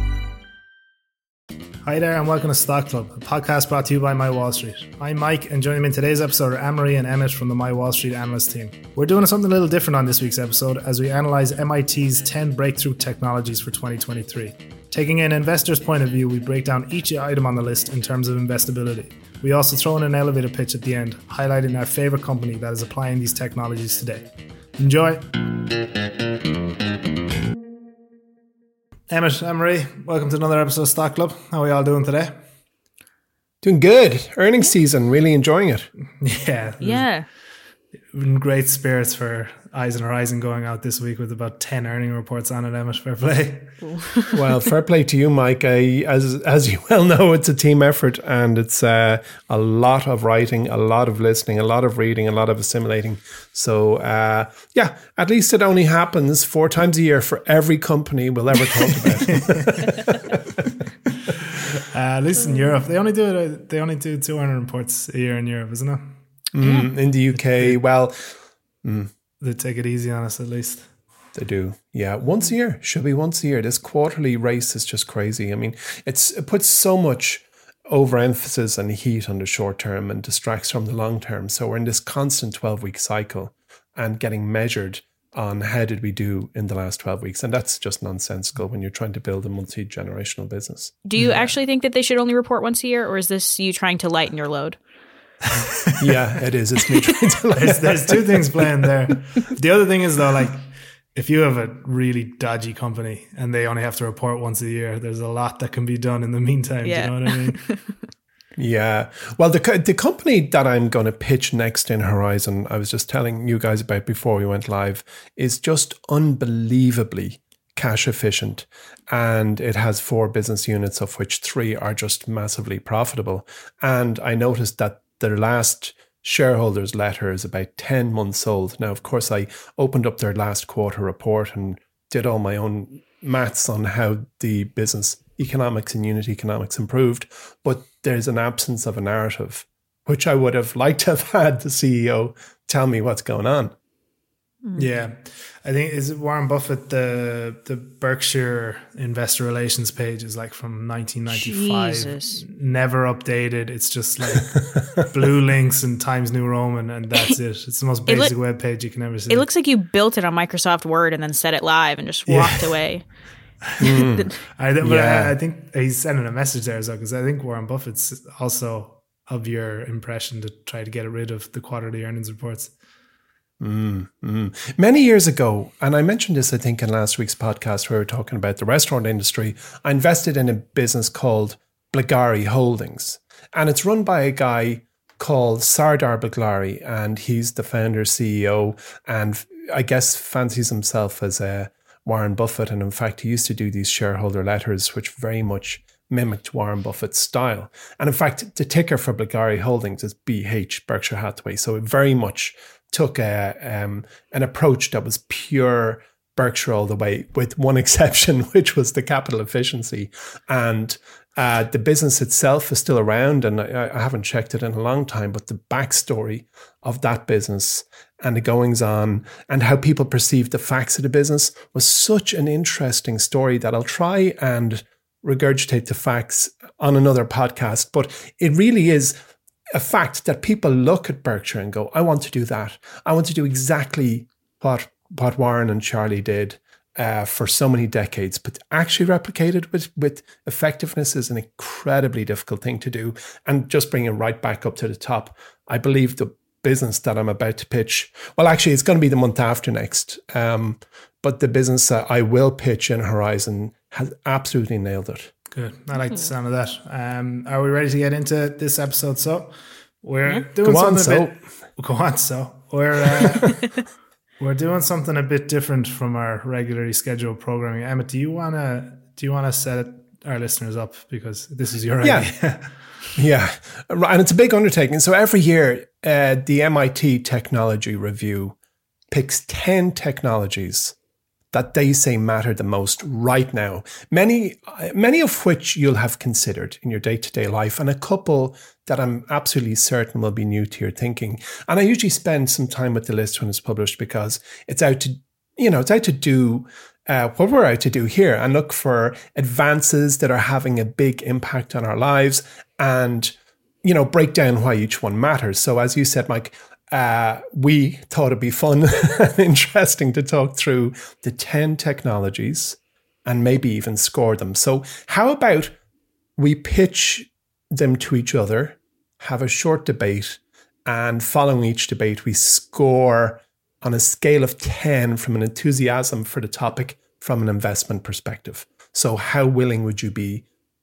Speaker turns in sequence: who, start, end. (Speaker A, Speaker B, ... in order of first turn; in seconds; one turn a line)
Speaker A: 1.8-25.3
Speaker A: 29.1-32.4
Speaker B: 33.6-35.9
Speaker A: 36.2-37.1
Speaker C: 36.8-37.3
Speaker A: 38.1-43.8
Speaker C: 43.8-44.4
Speaker B: 44.3-60.4
Speaker A: 59.3-59.9
Speaker A: 61.8-66.1
Speaker B: 66.5-69.1
Speaker C: 66.6-66.9
Speaker A: 67.4-67.8
Speaker A: 69.4-70.9
Speaker B: 71.3-91.3
Speaker C: 91.1-94.8
Speaker A: 95.5-96.2
Speaker B: 96.0-98.9
Speaker A: 97.5-107.6
Speaker C: 106.8-107.8
Speaker B: 108.6-143.8
Speaker A: 144.8-159.5
Speaker C: 151.3-152.4
Speaker C: 158.1-158.3
Speaker C: 159.3-163.1
Speaker A: 162.3-162.7
Speaker A: 163.7-172.7
Speaker B: 163.8-164.3
Speaker C: 164.0-164.3
Speaker B: 164.8-165.3
Speaker B: 173.6-229.2
Speaker B: 229.7-255.3
Speaker A: 255.5-263.8
Speaker C: 256.0-256.3
Speaker B: 260.6-261.4
Speaker A: 264.4-272.7
Speaker B: 272.0-272.3
Speaker B: 273.2-278.6
Speaker B: 279.1-280.9
Speaker B: 281.5-315.8
Speaker B: 316.4-330.4